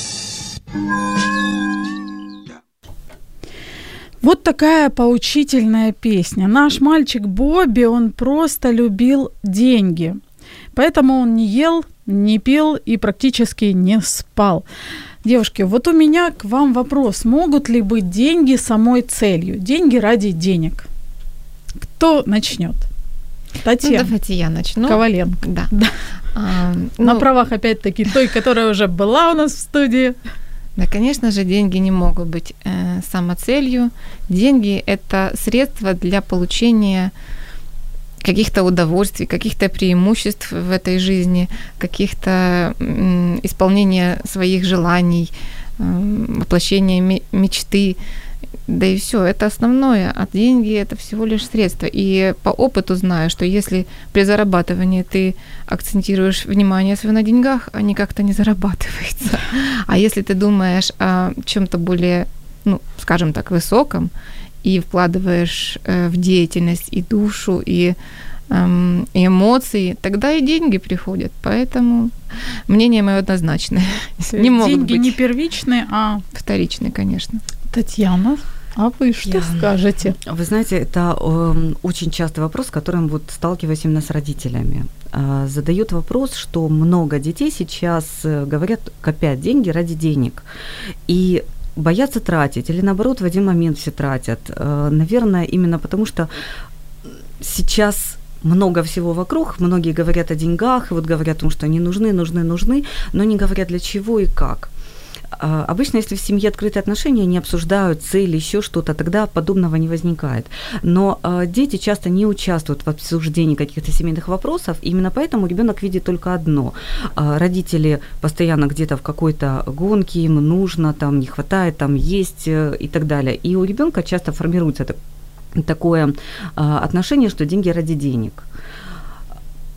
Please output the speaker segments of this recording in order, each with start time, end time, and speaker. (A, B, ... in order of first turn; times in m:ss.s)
0:04.2-0:10.2 A
0:10.7-0:14.6 A
0:15.2-0:20.8 A
0:21.8-0:22.9 A
0:23.6-0:24.1 A
0:23.8-0:25.7 B
0:24.8-0:25.9 A
0:26.3-0:27.3 B
0:27.0-0:30.2 A
0:30.8-0:37.1 B
0:38.2-0:48.0 B
0:48.7-1:04.1 B
1:04.6-1:08.0 B
1:08.5-1:12.1 B
1:12.7-1:15.2 B
1:14.3-1:16.2 A
1:16.3-1:17.4 B
1:17.7-1:20.2 A
1:20.2-1:30.4 C
1:31.1-1:36.3 C
1:37.4-1:44.7 C
1:45.4-2:05.0 C
2:05.5-2:08.5 C